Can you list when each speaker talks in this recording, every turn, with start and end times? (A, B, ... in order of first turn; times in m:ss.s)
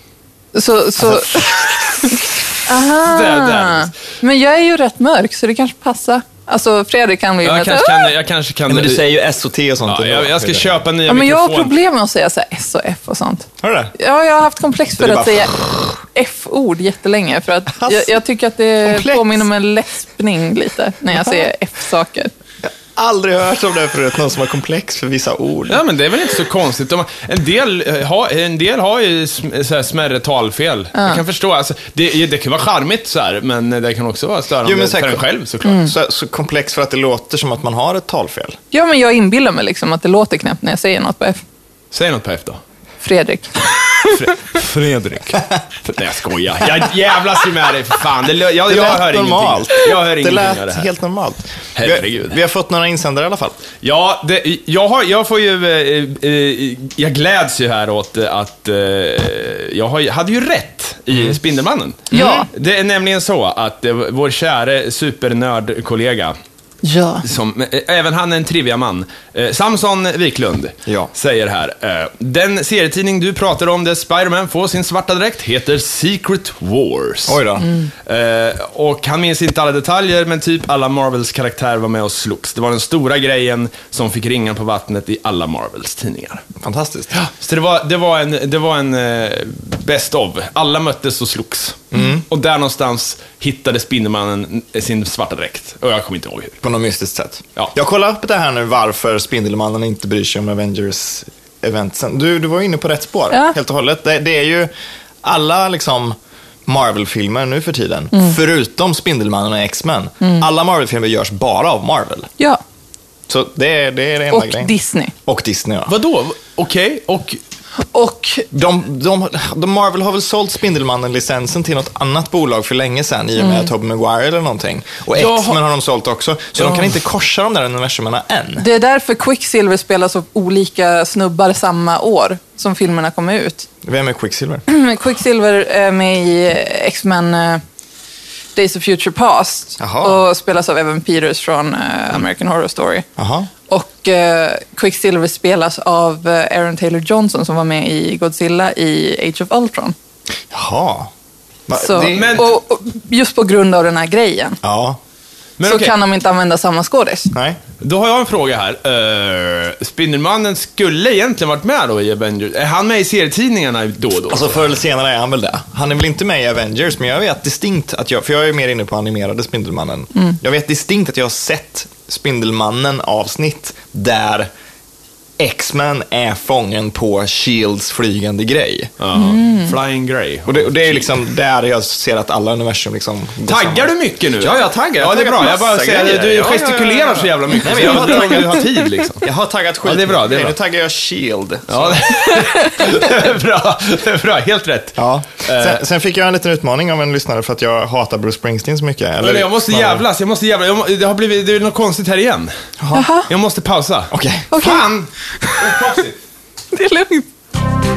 0:00.5-0:08.1 A
0:02.9-0:03.9 B
0:07.4-0:09.1 B
0:08.7-0:10.8 C
0:09.9-0:11.7 B
0:11.1-0:22.3 A
0:13.6-0:13.9 C
0:15.0-0:16.0 C
0:17.8-0:18.2 C
0:18.8-0:19.4 C
0:21.2-0:21.4 C
0:22.7-0:25.8 C
0:25.7-0:35.8 B
0:31.0-0:31.2 A
0:34.6-0:35.3 C
0:35.6-0:35.9 A
0:35.8-0:38.6 C
0:38.7-0:41.4 A
0:41.9-0:42.6 B
0:43.0-0:44.2 A
0:44.0-0:50.9 B
0:48.7-0:53.6 C
0:51.8-0:52.4 B
0:53.8-1:06.4 B
1:02.1-1:02.5 C
1:02.1-1:02.5 A
1:06.8-1:07.2 A
1:07.2-1:17.4 B
1:10.9-1:11.1 C
1:17.3-1:17.7 C
1:18.0-1:26.4 B
1:26.6-1:27.2 C
1:27.2-1:36.6 B
1:31.9-1:32.2 C
1:36.6-1:44.7 C
1:45.2-1:52.3 C
1:53.3-1:55.9 C
1:54.3-1:55.1 A
1:55.9-1:57.4 B
1:57.8-1:58.5 A
1:58.5-2:08.7 C
2:03.4-2:03.7 A
2:05.1-2:05.6 B
2:06.6-2:06.9 B
2:08.6-2:13.7 A
2:13.8-2:14.6 C
2:14.7-2:17.6 A
2:18.6-2:23.0 A
2:19.8-2:20.2 C
2:23.2-2:23.5 C
2:23.7-2:30.0 A
2:30.5-2:31.1 C
2:31.7-2:32.5 C
2:31.8-2:34.6 A
2:32.0-2:32.5 B
2:34.6-2:35.0 C
2:35.6-2:35.9 B
2:35.6-2:37.3 A
2:37.3-2:37.6 C
2:37.8-2:44.6 B
2:44.3-2:54.5 C
2:55.4-2:58.9 C
2:59.0-3:01.1 B
2:59.1-2:59.7 A
3:00.5-3:08.7 C
3:03.5-3:09.3 B
3:09.2-3:12.2 C
3:09.8-3:10.6 B
3:11.7-3:15.8 B
3:15.0-3:20.0 C
3:19.2-3:22.5 B
3:22.8-3:23.1 C
3:22.9-3:23.3 A
3:23.3-3:26.2 B
3:24.1-3:24.5 C
3:24.5-3:24.8 A
3:26.7-3:27.3 A